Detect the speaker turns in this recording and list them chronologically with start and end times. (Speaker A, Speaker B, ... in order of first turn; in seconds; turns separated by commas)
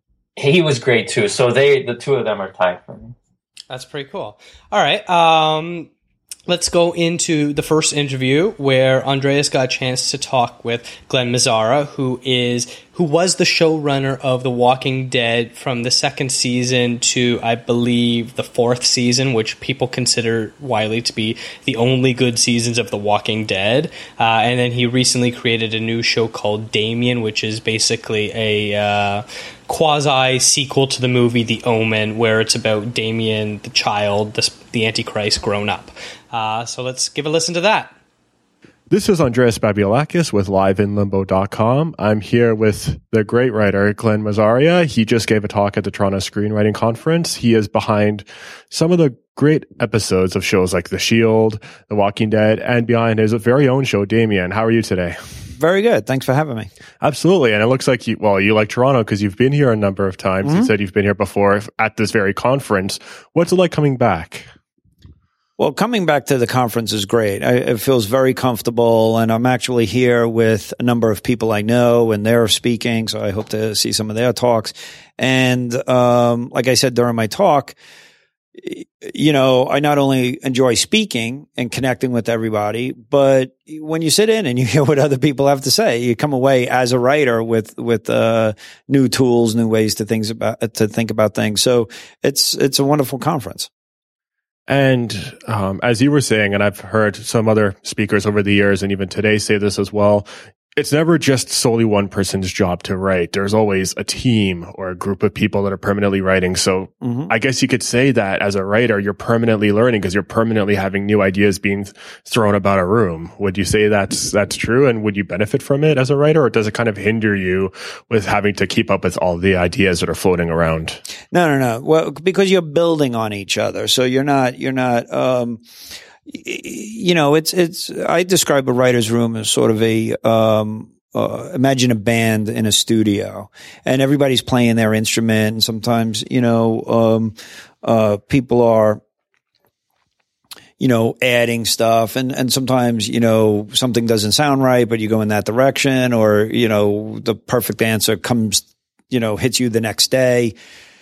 Speaker A: 0.4-3.1, Speaker B: 3.7-5.9, Speaker B: 6.5-37.9, Speaker C: 38.9-55.2, Speaker D: 55.6-56.7, Speaker C: 57.0-64.5, Speaker D: 60.4-60.7, Speaker D: 65.6-77.8, Speaker D: 78.6-93.7, Speaker C: 94.7-121.0, Speaker D: 107.0-107.3, Speaker D: 121.3-125.6, Speaker D: 126.3-139.0, Speaker D: 140.8-150.5